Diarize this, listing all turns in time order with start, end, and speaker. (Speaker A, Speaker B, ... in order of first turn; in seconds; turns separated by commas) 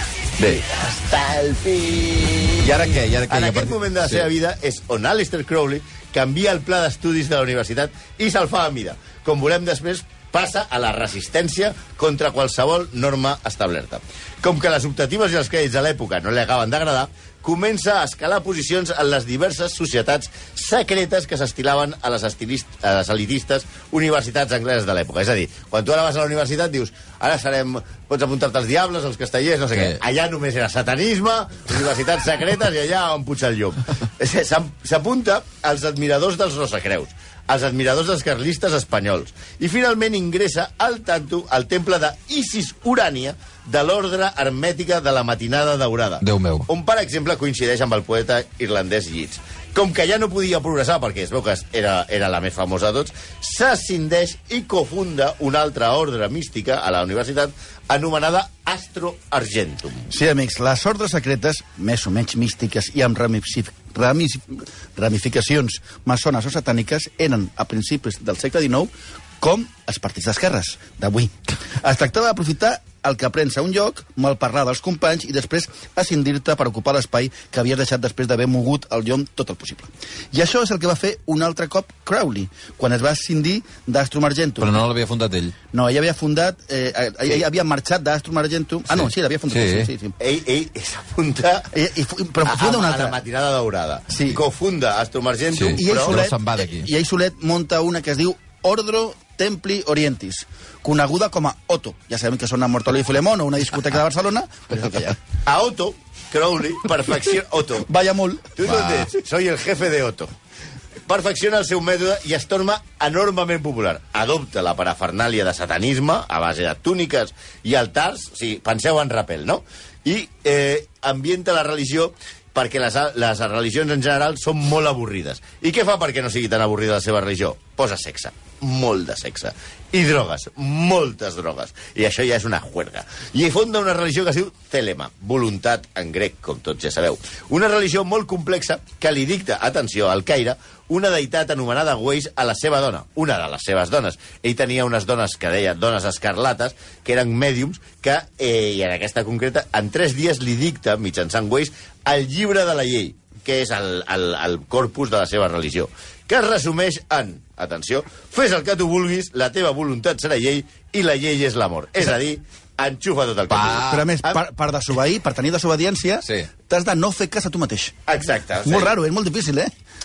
Speaker A: 0.4-60.1, Speaker B: 2.6-4.3, Speaker B: 29.7-30.0, Speaker B: 46.2-46.7, Speaker C: 60.1-84.8, Speaker B: 84.6-85.5, Speaker C: 85.7-90.2, Speaker B: 88.9-89.9, Speaker A: 90.2-91.7, Speaker C: 91.7-93.2, Speaker A: 92.4-96.2, Speaker C: 94.1-94.4, Speaker B: 95.5-96.9, Speaker C: 95.7-105.2, Speaker A: 105.5-107.9, Speaker C: 107.9-108.5, Speaker A: 108.6-110.3, Speaker B: 108.6-109.1, Speaker A: 111.1-164.4, Speaker B: 163.5-164.1, Speaker C: 163.8-167.9, Speaker A: 168.1-168.9, Speaker C: 168.6-169.7